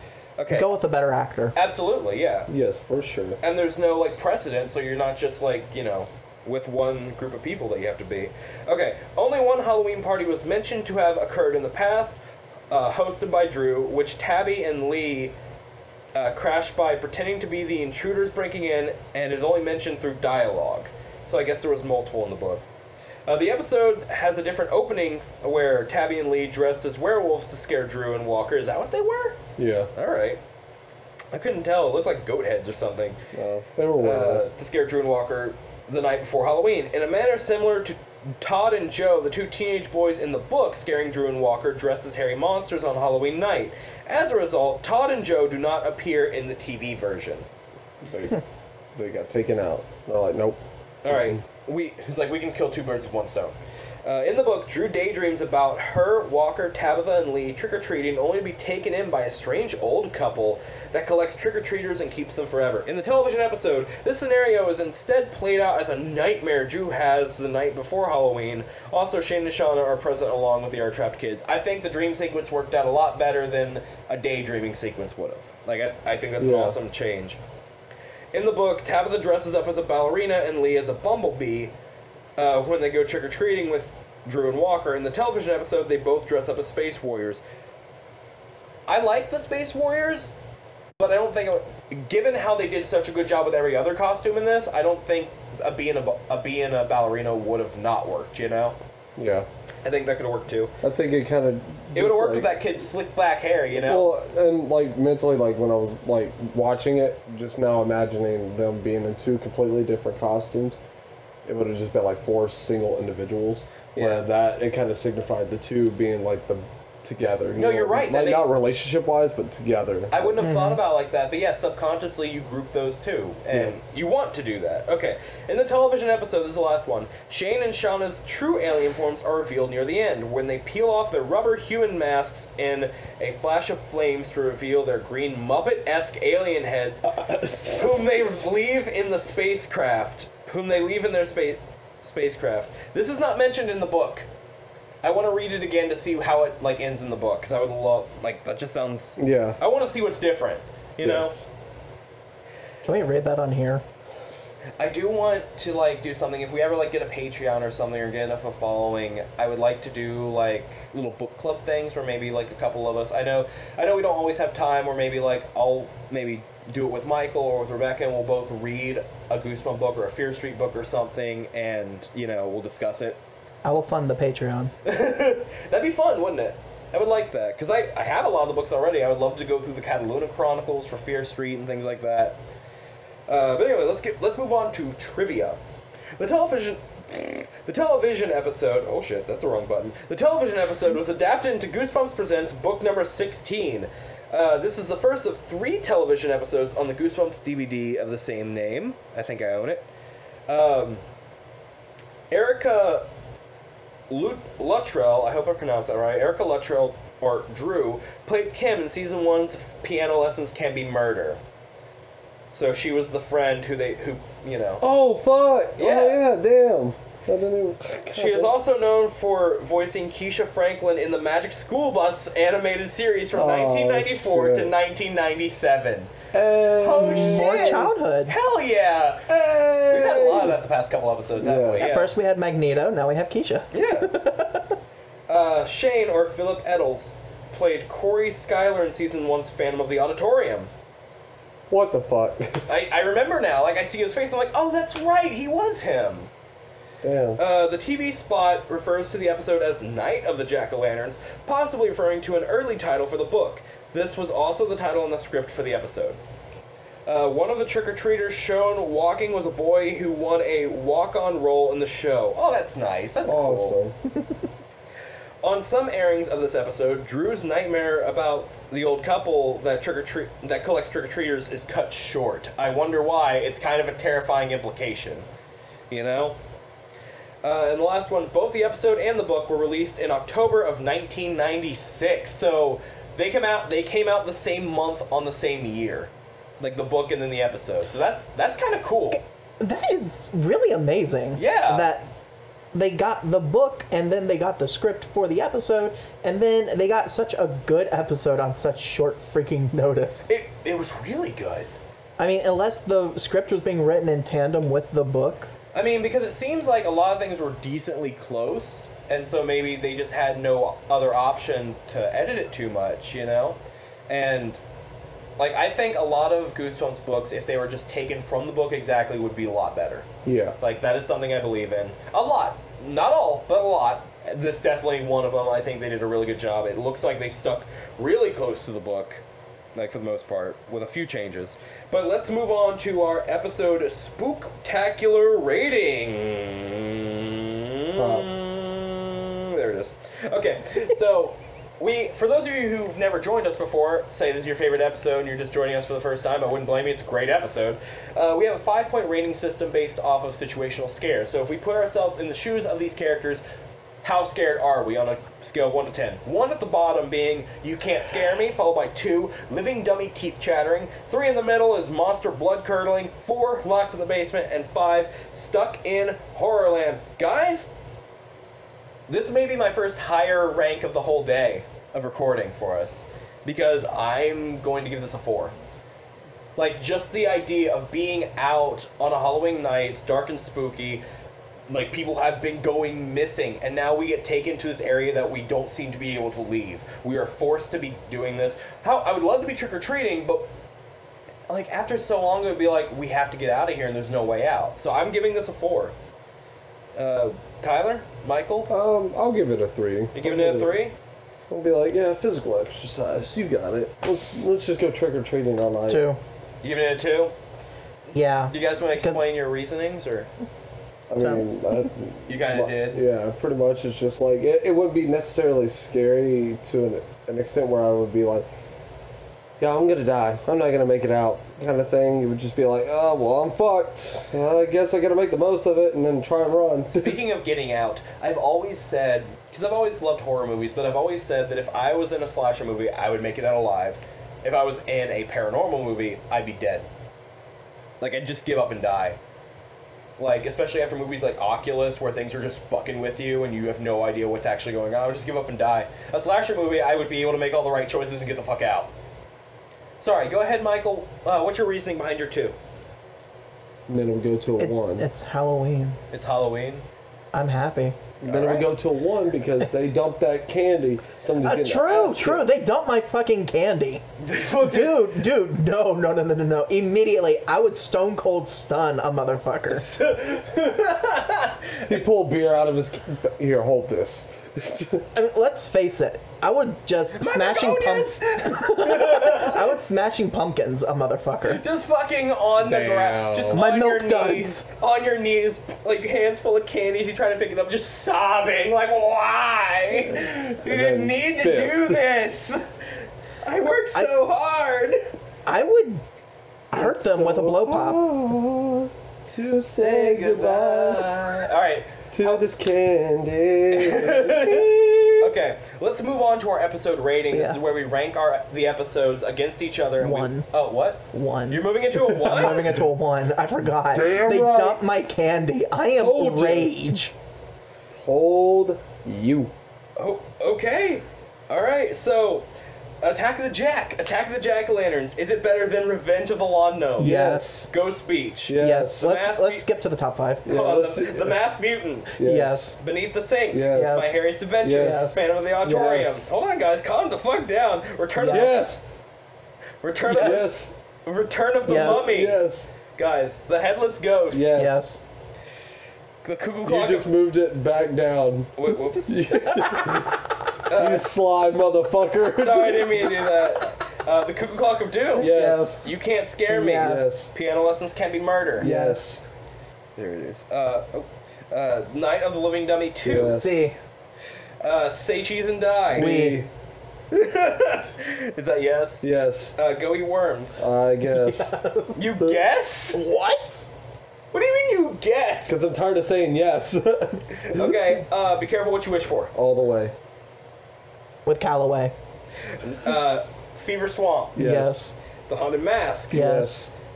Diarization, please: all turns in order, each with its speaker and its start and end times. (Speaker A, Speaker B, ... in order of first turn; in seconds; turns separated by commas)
Speaker A: 0.4-0.7, Speaker B: 0.5-1.6, Speaker A: 1.6-2.5, Speaker C: 2.5-3.4, Speaker A: 3.4-15.3, Speaker A: 16.1-22.6, Speaker A: 23.3-29.4, Speaker C: 29.6-29.9, Speaker A: 29.9-30.4, Speaker A: 31.3-33.2, Speaker C: 33.3-34.4, Speaker A: 34.0-47.5, Speaker C: 48.0-48.4, Speaker C: 49.0-50.6, Speaker A: 51.0-77.4, Speaker C: 51.1-51.4, Speaker C: 76.4-76.8, Speaker A: 78.3-81.7, Speaker A: 82.4-87.4, Speaker A: 88.9-90.3, Speaker A: 91.0-98.8, Speaker C: 99.2-99.5, Speaker A: 99.8-100.7, Speaker C: 100.8-102.6, Speaker A: 102.0-104.1, Speaker C: 103.7-110.8, Speaker C: 111.5-120.4, Speaker A: 114.0-114.2, Speaker A: 117.6-118.5, Speaker A: 120.1-144.3, Speaker B: 120.4-120.8, Speaker C: 137.4-138.0, Speaker A: 145.0-151.4, Speaker C: 149.2-149.6, Speaker C: 151.0-151.4, Speaker B: 152.8-153.8, Speaker A: 154.8-173.2, Speaker B: 173.7-174.7, Speaker A: 174.8-182.4, Speaker A: 183.3-185.6, Speaker A: 186.2-199.9, Speaker A: 200.5-201.0, Speaker A: 202.3-203.1, Speaker A: 204.1-211.4, Speaker A: 212.5-214.8, Speaker C: 214.8-218.5, Speaker A: 215.8-216.2, Speaker A: 218.1-226.1, Speaker C: 223.3-224.7, Speaker C: 226.3-227.9, Speaker A: 226.8-232.1, Speaker B: 227.1-228.3, Speaker C: 229.7-230.6, Speaker C: 231.4-231.9, Speaker B: 231.8-234.8, Speaker A: 233.7-234.3, Speaker A: 235.3-240.7, Speaker C: 241.7-242.7, Speaker A: 242.7-246.3, Speaker C: 247.0-247.4, Speaker A: 247.4-256.2, Speaker A: 257.1-263.8, Speaker C: 263.2-264.0, Speaker A: 265.4-275.3, Speaker A: 275.9-276.4, Speaker A: 277.4-289.2, Speaker B: 289.6-292.1, Speaker A: 291.4-291.9, Speaker B: 292.7-300.3, Speaker A: 300.3-301.7, Speaker B: 302.2-305.5, Speaker A: 305.7-313.6, Speaker A: 314.1-314.6, Speaker A: 315.4-320.1, Speaker C: 320.2-320.6, Speaker A: 320.6-329.2, Speaker A: 329.8-353.4, Speaker C: 337.9-338.3, Speaker A: 354.0-367.7, Speaker A: 369.1-375.6, Speaker A: 376.6-381.0, Speaker A: 381.7-390.5, Speaker A: 391.5-395.9, Speaker A: 397.0-398.7, Speaker C: 398.7-400.7, Speaker A: 400.1-400.9, Speaker C: 401.5-406.0, Speaker B: 405.9-406.2, Speaker A: 406.6-407.3, Speaker B: 408.1-409.3, Speaker A: 408.5-410.3, Speaker C: 411.1-418.5, Speaker B: 411.2-411.4, Speaker A: 412.3-413.0, Speaker C: 419.6-427.2, Speaker A: 427.0-436.9, Speaker A: 438.0-439.2, Speaker A: 440.2-448.9, Speaker A: 450.0-452.6, Speaker C: 453.9-455.1, Speaker B: 454.6-456.0, Speaker A: 456.1-456.9, Speaker B: 457.3-458.0, Speaker C: 458.2-462.5, Speaker A: 458.3-458.7, Speaker B: 461.4-464.0, Speaker A: 464.2-465.1, Speaker B: 464.6-470.0, Speaker A: 469.7-471.9, Speaker C: 471.8-475.1, Speaker B: 475.1-481.6, Speaker A: 477.1-479.7, Speaker A: 481.5-495.0, Speaker C: 482.6-483.6, Speaker B: 483.5-484.6, Speaker C: 489.9-492.0, Speaker B: 495.5-496.0, Speaker B: 496.7-498.0, Speaker C: 496.8-501.5, Speaker A: 499.8-502.5, Speaker C: 502.1-505.3, Speaker A: 503.7-512.7, Speaker B: 507.2-507.6, Speaker B: 510.0-510.5, Speaker B: 511.1-511.7, Speaker C: 512.0-512.5, Speaker B: 512.2-517.1, Speaker C: 513.9-514.8, Speaker C: 516.0-516.7, Speaker C: 517.9-519.5, Speaker A: 520.0-522.5, Speaker A: 523.0-527.2, Speaker B: 527.0-527.7, Speaker C: 527.0-527.5, Speaker A: 527.7-529.7, Speaker C: 528.5-529.1, Speaker B: 528.6-530.6, Speaker C: 530.5-531.4, Speaker A: 530.5-532.2, Speaker C: 532.2-532.8, Speaker B: 532.2-532.8, Speaker A: 532.8-538.8, Speaker C: 533.5-535.1, Speaker B: 533.7-535.2, Speaker C: 535.6-536.2, Speaker B: 538.2-538.6, Speaker C: 538.2-538.8, Speaker A: 539.8-542.4, Speaker C: 540.1-540.7, Speaker B: 540.1-540.5, Speaker B: 541.6-542.1, Speaker C: 541.7-542.7, Speaker A: 543.0-544.6, Speaker C: 544.3-544.9, Speaker B: 544.5-545.0, Speaker A: 546.2-547.1, Speaker C: 546.7-553.3, Speaker A: 548.6-549.7, Speaker A: 550.7-551.1, Speaker A: 552.4-558.7, Speaker C: 555.2-555.9, Speaker B: 555.2-555.9, Speaker B: 556.5-557.2, Speaker C: 556.7-557.3, Speaker C: 558.6-559.2, Speaker B: 558.6-559.0, Speaker A: 560.0-563.6, Speaker C: 563.0-563.7, Speaker B: 563.1-563.8, Speaker A: 564.6-566.1, Speaker C: 565.9-566.5, Speaker B: 565.9-566.4, Speaker A: 567.1-569.0, Speaker C: 569.0-569.5, Speaker A: 569.6-570.6, Speaker C: 570.6-571.5, Speaker B: 571.1-572.2, Speaker A: 572.0-573.0, Speaker B: 572.9-573.7, Speaker A: 574.3-575.6, Speaker C: 575.5-577.8, Speaker A: 577.4-579.3, Speaker C: 579.3-579.9, Speaker B: 581.3-581.9, Speaker A: 582.5-584.5, Speaker C: 584.4-584.8, Speaker B: 584.4-585.0, Speaker A: 585.3-586.3, Speaker B: 586.1-586.7, Speaker C: 586.1-586.7